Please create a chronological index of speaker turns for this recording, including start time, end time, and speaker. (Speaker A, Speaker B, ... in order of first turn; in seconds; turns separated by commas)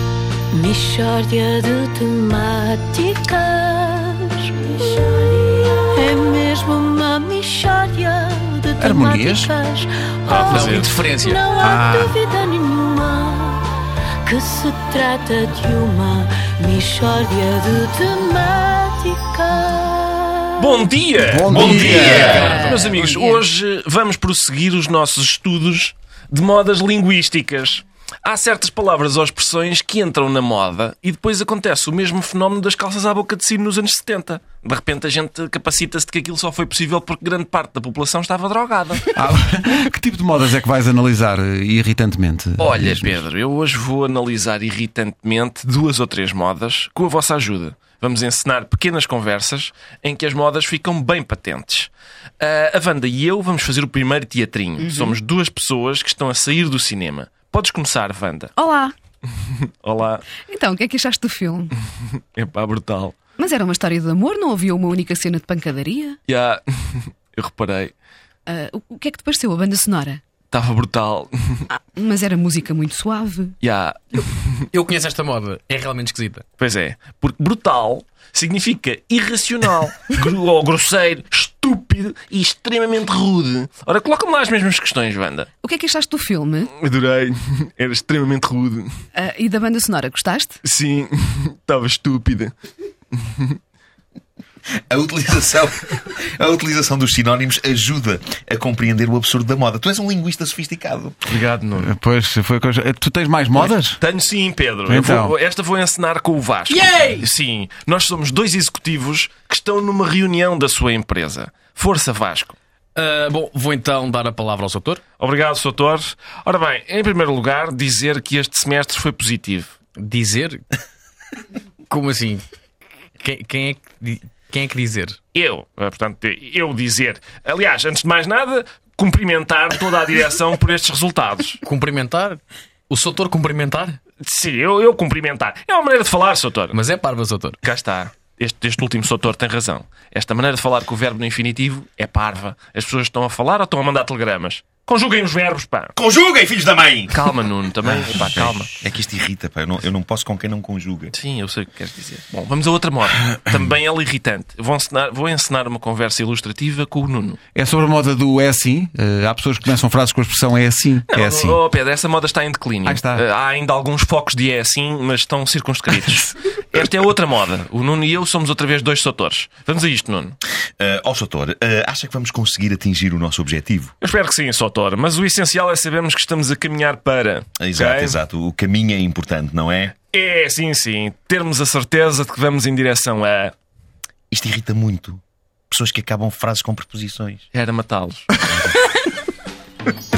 Speaker A: 0.5-13.7, Speaker B: 8.8-9.5, Speaker C: 10.3-11.1, Speaker D: 10.5-11.4, Speaker B: 11.6-12.2, Speaker A: 14.2-20.8, Speaker C: 20.6-39.1, Speaker B: 21.2-22.5, Speaker E: 21.5-22.7, Speaker A: 21.7-22.9, Speaker D: 22.3-23.0, Speaker F: 22.5-23.4, Speaker B: 39.1-43.2, Speaker C: 42.6-58.5, Speaker F: 54.8-55.2, Speaker F: 58.6-58.9, Speaker C: 59.4-60.2, Speaker F: 60.5-61.8, Speaker C: 62.3-63.1, Speaker F: 63.4-66.2, Speaker C: 66.3-67.9, Speaker F: 68.5-70.2, Speaker C: 70.5-71.7, Speaker F: 71.7-73.6, Speaker C: 73.6-74.7, Speaker D: 74.7-76.4, Speaker C: 76.6-85.5, Speaker F: 85.6-86.7, Speaker C: 86.7-88.9, Speaker F: 89.1-90.6, Speaker C: 90.6-92.5, Speaker C: 93.1-93.6, Speaker E: 94.9-101.2, Speaker C: 101.2-102.0, Speaker B: 101.8-104.0, Speaker C: 103.5-112.5, Speaker B: 104.9-105.3, Speaker D: 106.7-107.3, Speaker D: 112.9-115.0, Speaker C: 115.2-119.7, Speaker D: 120.0-120.6, Speaker D: 121.9-122.4, Speaker D: 123.2-125.2, Speaker C: 125.3-131.6, Speaker D: 131.6-134.0, Speaker C: 134.2-136.8, Speaker D: 136.7-137.6, Speaker C: 137.6-145.9, Speaker E: 145.9-147.3, Speaker C: 147.1-148.8, Speaker E: 147.8-151.1, Speaker C: 151.1-157.4, Speaker B: 157.5-161.6, Speaker C: 161.1-170.4, Speaker B: 162.8-163.2, Speaker E: 170.8-173.9, Speaker C: 174.0-178.2, Speaker E: 177.6-179.9, Speaker C: 180.1-183.5, Speaker E: 184.3-187.4, Speaker C: 187.5-188.3, Speaker E: 188.5-188.8